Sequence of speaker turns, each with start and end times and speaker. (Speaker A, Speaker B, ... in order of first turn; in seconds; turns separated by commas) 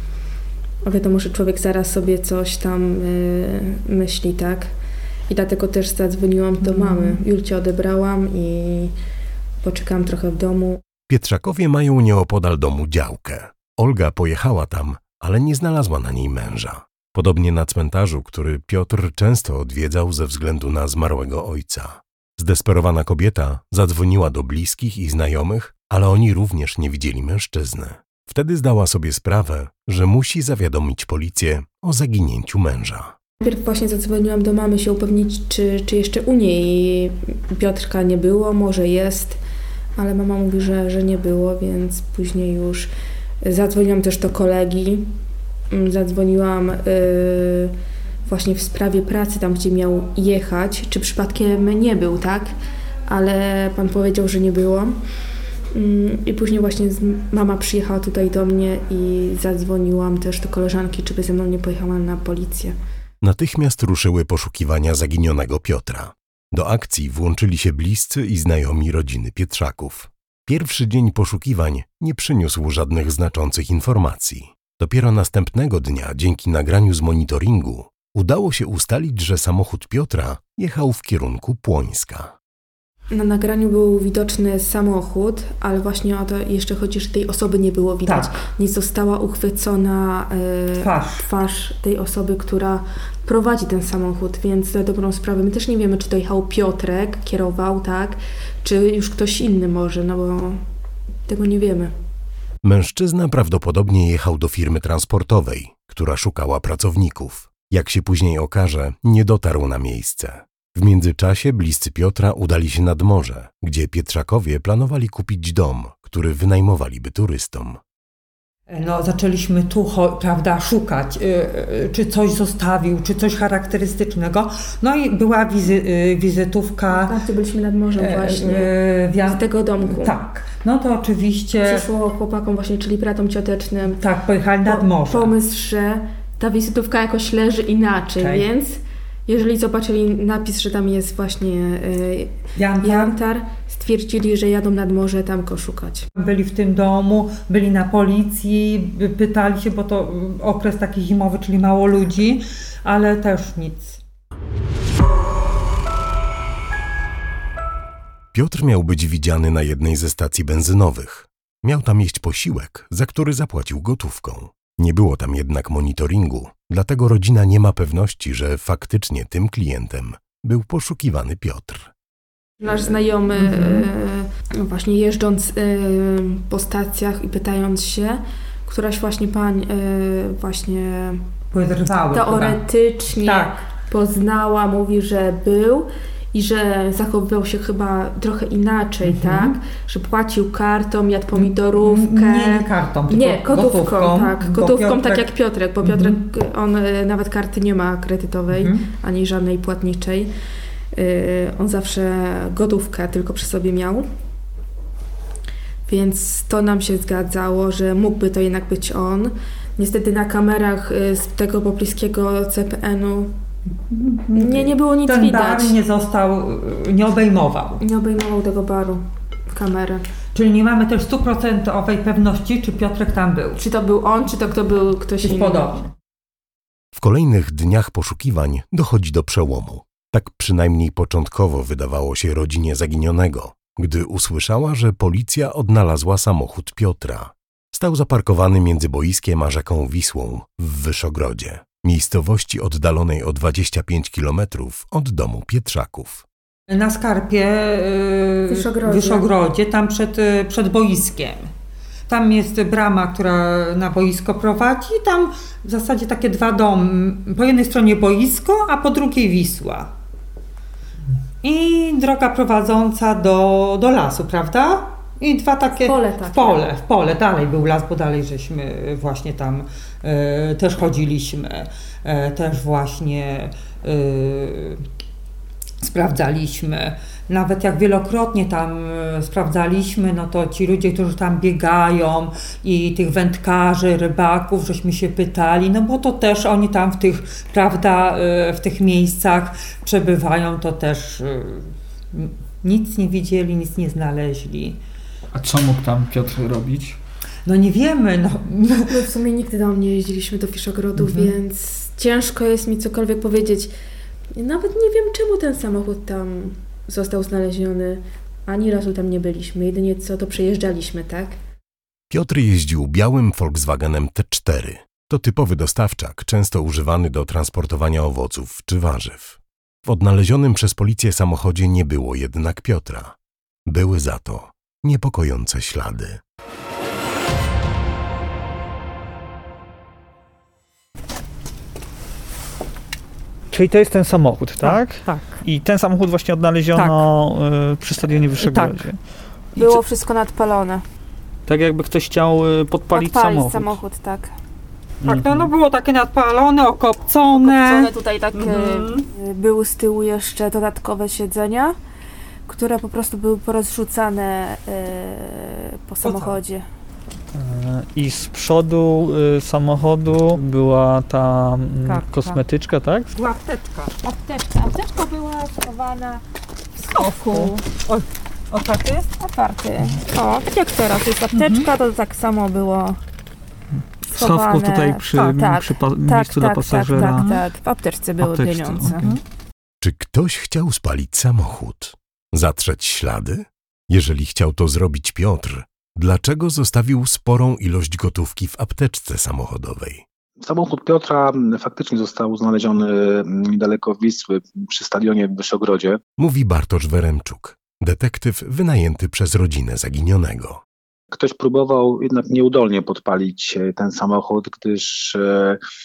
Speaker A: 0.8-4.7, Speaker A: 5.3-8.9, Speaker B: 6.6-7.2, Speaker A: 9.6-10.8, Speaker C: 11.1-33.1, Speaker A: 33.4-39.4, Speaker A: 40.0-42.9, Speaker A: 43.4-45.1, Speaker A: 45.7-47.7, Speaker A: 48.2-52.5, Speaker A: 53.1-54.9, Speaker A: 55.7-62.7, Speaker C: 63.2-82.3, Speaker A: 83.1-100.6, Speaker B: 88.0-88.4, Speaker B: 90.8-91.3, Speaker A: 101.3-101.9, Speaker C: 102.6-117.8, Speaker B: 118.7-127.2, Speaker A: 126.9-128.7, Speaker B: 128.0-131.9, Speaker A: 129.2-130.2, Speaker A: 131.6-134.0, Speaker B: 133.9-135.3, Speaker A: 134.7-146.1, Speaker B: 138.2-138.5, Speaker B: 142.6-143.1, Speaker B: 146.2-154.0, Speaker C: 158.3-171.9, Speaker A: 172.6-181.2, Speaker B: 172.8-173.9, Speaker B: 181.5-183.7, Speaker A: 182.1-200.3, Speaker B: 189.0-189.5, Speaker B: 191.3-195.2, Speaker B: 195.8-196.2, Speaker B: 198.5-198.8, Speaker A: 200.9-204.0, Speaker A: 205.9-213.3, Speaker B: 213.9-217.8, Speaker A: 214.3-215.8, Speaker A: 217.8-220.0, Speaker B: 220.3-223.6, Speaker A: 223.6-225.7, Speaker B: 225.2-225.9, Speaker C: 226.9-246.2, Speaker B: 246.7-251.5, Speaker A: 248.5-249.2, Speaker B: 252.1-259.9, Speaker B: 261.4-274.8, Speaker A: 265.8-266.6, Speaker B: 275.8-294.8, Speaker D: 295.3-297.0, Speaker B: 297.4-299.1, Speaker A: 298.9-303.7, Speaker B: 301.0-301.3, Speaker A: 304.3-311.4, Speaker C: 312.1-323.1, Speaker C: 323.7-326.2, Speaker D: 333.5-339.0, Speaker B: 334.6-335.4, Speaker B: 336.7-337.1, Speaker B: 338.4-338.9, Speaker A: 339.6-340.8, Speaker D: 341.4-343.8, Speaker A: 342.9-344.3, Speaker D: 345.0-345.5, Speaker B: 345.0-349.1, Speaker A: 347.4-351.8, Speaker A: 352.5-356.6, Speaker B: 356.0-356.4, Speaker D: 357.3-363.1, Speaker B: 361.8-362.4, Speaker B: 363.1-363.9, Speaker A: 364.0-366.2, Speaker B: 366.8-369.1, Speaker A: 366.9-367.6, Speaker A: 369.2-373.0, Speaker B: 371.3-371.7, Speaker D: 374.1-377.2, Speaker A: 374.1-379.1, Speaker B: 377.0-377.4, Speaker D: 378.2-379.1, Speaker C: 379.8-390.0, Speaker E: 390.4-396.0, Speaker C: 396.2-400.6, Speaker E: 401.1-405.6